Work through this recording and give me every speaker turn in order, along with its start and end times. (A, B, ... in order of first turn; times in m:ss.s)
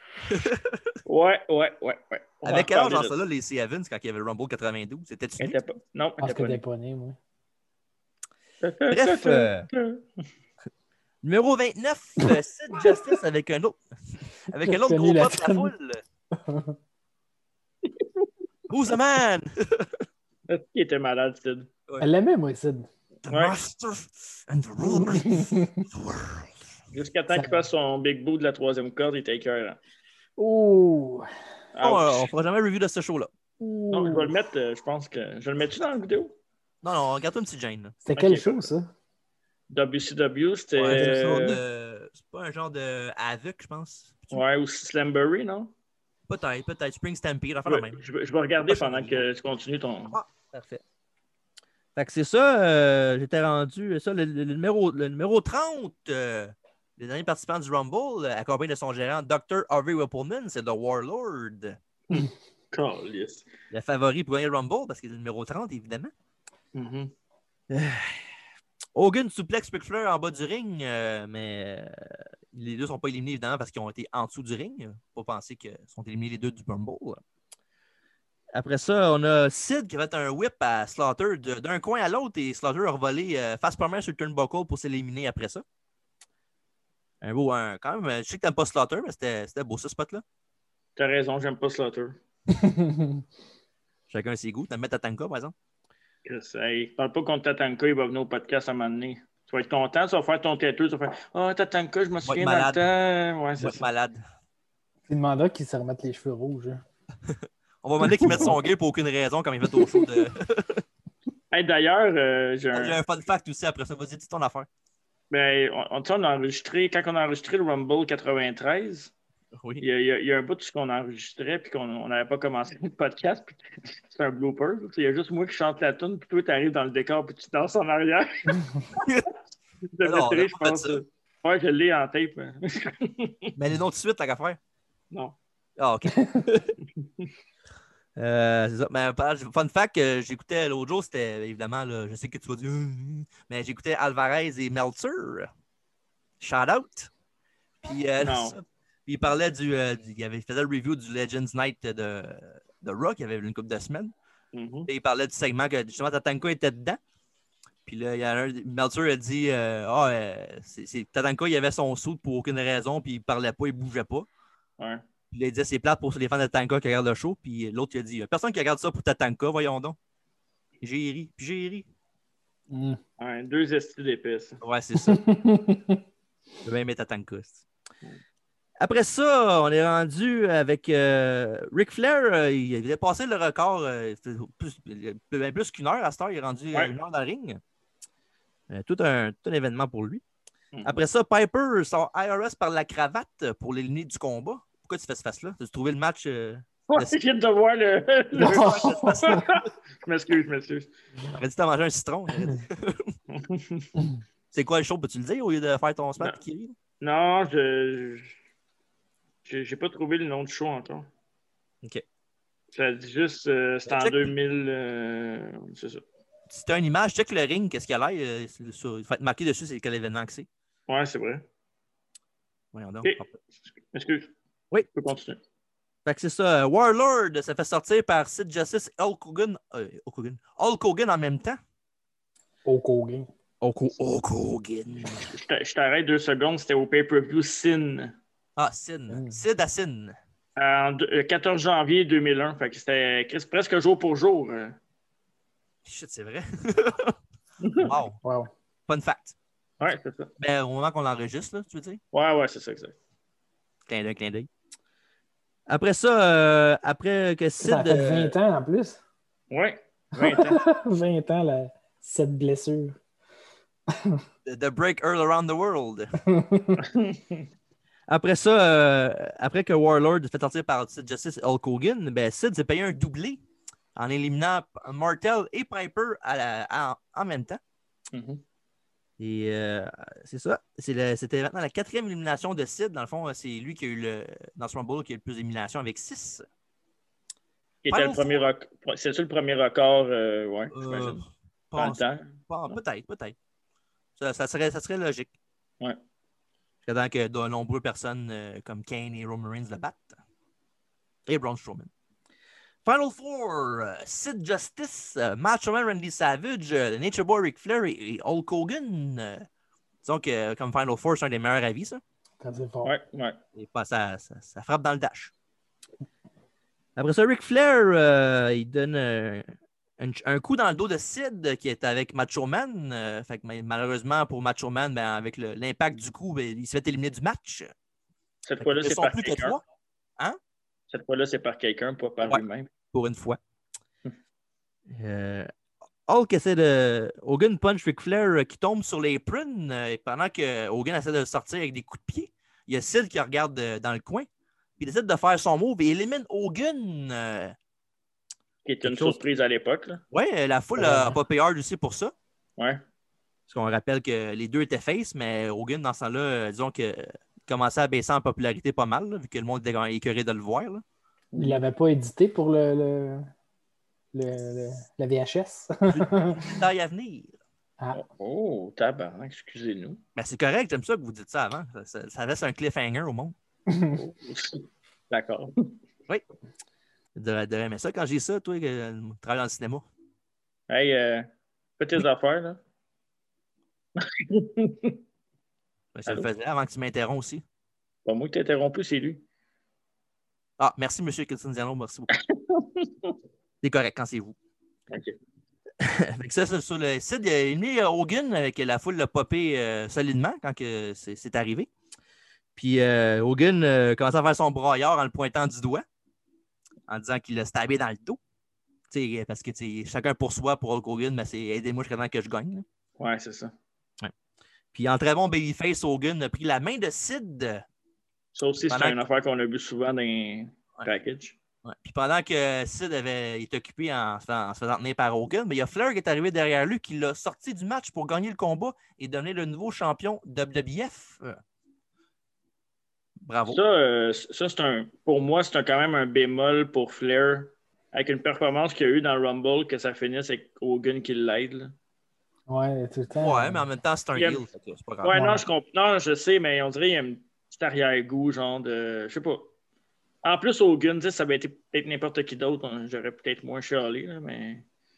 0:00.3-0:01.0 A
0:01.1-0:03.2 B
0:02.4-0:05.6 A
0:05.4-0:06.6 B
0:06.2-0:07.2 C
0:08.6-0:10.0 B
0:08.9-0:09.7 A
0:11.2-0:16.0 A
0:14.6-0:15.7 C
0:16.4-0:16.8 C
0:18.7-0:20.0 A
0:20.5-0:21.7 B
0:22.0-0:22.9 C
0:23.2-0:26.7 A
0:23.3-0:23.6 B
0:24.8-0:25.9 C
0:26.9-0:29.8 B
0:27.3-0:27.6 C
0:30.4-0:31.3 C
0:31.7-0:32.3 B
0:31.8-0:33.3 A
0:33.6-0:34.3 C
0:33.9-0:36.4 B
0:36.8-0:38.0 A
0:38.0-0:38.9 C
0:38.2-0:38.7 B
0:39.7-0:41.6 B
0:40.8-0:44.4 A
0:40.9-0:41.6 C
0:44.3-0:45.7 B
0:46.3-0:48.0 A
0:47.7-0:50.2 B
0:48.6-0:49.3 A
0:50.1-0:50.8 A
0:52.0-1:01.8 A
1:02.1-1:03.4 B
1:03.7-1:06.1 A
1:06.8-1:07.1 B
1:07.7-1:08.3 A
1:09.0-1:17.2 A
1:18.5-1:25.6 A
1:27.2-1:30.2 A
1:31.0-1:32.2 B
1:32.5-1:33.2 C
1:34.1-1:35.5 A
1:36.2-1:43.8 B
1:42.2-1:42.8 A
1:43.6-1:44.2 A
1:45.1-1:46.8 C
1:47.3-1:50.8 A
1:51.5-1:53.0 B
1:52.7-1:54.7 A
1:55.3-1:59.1 B
1:59.6-1:59.8 A
1:59.8-2:09.0 B
2:08.9-2:09.3 A
2:09.9-2:13.5 B
2:10.0-2:11.0 A
2:13.6-2:14.6 A
2:15.1-2:15.4 B
2:15.8-2:16.7 A
2:18.2-2:25.5 A
2:26.4-2:27.1 A
2:27.8-2:34.1 A
2:28.2-2:28.6 B
2:34.5-2:34.9 B
2:34.9-2:37.0 A
2:37.9-2:44.3 A
2:45.3-2:50.0 A
2:50.8-2:51.9 A
2:52.7-2:53.0 C
2:53.2-2:54.6 B
2:54.6-2:55.2 A
2:55.0-2:56.0 C
2:56.6-2:57.6 A
2:58.8-3:07.6 A
3:08.7-3:10.2 A
3:10.8-3:17.2 A
3:16.9-3:20.9 B
3:18.4-3:19.6 A
3:18.4-3:19.4 C
3:21.3-3:23.2 A
3:23.3-3:23.9 B
3:24.5-3:26.8 A
3:27.0-3:28.4 B
3:29.4-3:31.1 B
3:32.7-3:36.0 B
3:33.9-3:34.3 A
3:36.5-3:40.5 A
3:40.9-3:41.4 B
3:42.7-3:43.3 A
3:43.9-3:44.3 B
3:44.9-3:45.4 B
3:46.0-3:51.6 A
3:52.7-3:53.3 C
3:53.6-3:55.2 A
3:55.2-3:58.2 B
3:58.6-4:00.2 A
3:59.1-3:59.4 C
4:00.6-4:04.8 B
4:05.8-4:07.2 A
4:07.6-4:08.0 B
4:07.8-4:08.2 A
4:08.2-4:08.5 C
4:08.9-4:09.4 A
4:09.8-4:10.3 B
4:10.4-4:12.0 A
4:12.1-4:13.0 B
4:13.9-4:14.5 A
4:15.7-4:18.3 A
4:17.6-4:19.0 C
4:19.5-4:20.6 B
4:20.2-4:23.0 C
4:23.9-4:24.2 C
4:24.4-4:26.1 A
4:26.3-4:26.8 C
4:26.8-4:27.4 B
4:28.1-4:33.4 A
4:34.0-4:37.6 A
4:38.1-4:38.4 B
4:39.2-4:46.4 A
4:47.8-4:51.2 B
4:47.9-4:48.5 A
4:50.7-4:53.4 A
4:51.8-4:52.3 B
4:54.2-4:55.3 A
4:56.8-5:00.2 A
5:01.3-5:01.9 A
5:02.8-5:09.4 A
5:10.0-5:12.0 A
5:12.4-5:12.9 C
5:12.8-5:13.4 B
5:13.6-5:15.3 A
5:17.0-5:27.7 A
5:28.4-5:29.6 B
5:28.6-5:29.6 A
5:30.9-5:32.7 B
5:32.9-5:33.4 A
5:34.9-5:35.5 A
5:36.1-5:44.3 A
5:44.8-5:47.6 A
5:48.6-5:50.0 B
5:48.8-5:49.2 A
5:50.1-5:52.1 A
5:50.8-5:51.2 C
5:53.5-6:00.8 A
6:01.3-6:01.6 B
6:01.4-6:03.3 C
6:04.1-6:06.5 C
6:05.9-6:07.4 A
6:07.9-6:10.0 B
6:10.2-6:13.4 A
6:13.7-6:14.0 C
6:14.0-6:15.7 B
6:17.2-6:19.8 A
6:20.7-6:22.6 B
6:24.0-6:25.0 B
6:25.9-6:27.4 A
6:28.1-6:29.2 B
6:30.6-6:32.1 A
6:32.2-6:33.2 B
6:33.6-6:34.4 A
6:34.9-6:35.2 B
6:35.8-6:41.7 A
6:42.6-6:45.8 A
6:46.9-6:48.2 A
6:48.9-6:52.6 A
6:53.0-6:53.5 B
6:54.7-6:57.6 A
6:58.4-7:01.4 B
6:58.7-6:59.0 A
7:01.6-7:11.4 A
7:13.2-7:13.6 A
7:13.5-7:21.7 B
7:22.5-7:23.6 C
7:23.1-7:25.2 A
7:24.2-7:24.4 B
7:25.0-7:29.5 B
7:25.1-7:25.4 C
7:30.2-7:34.6 B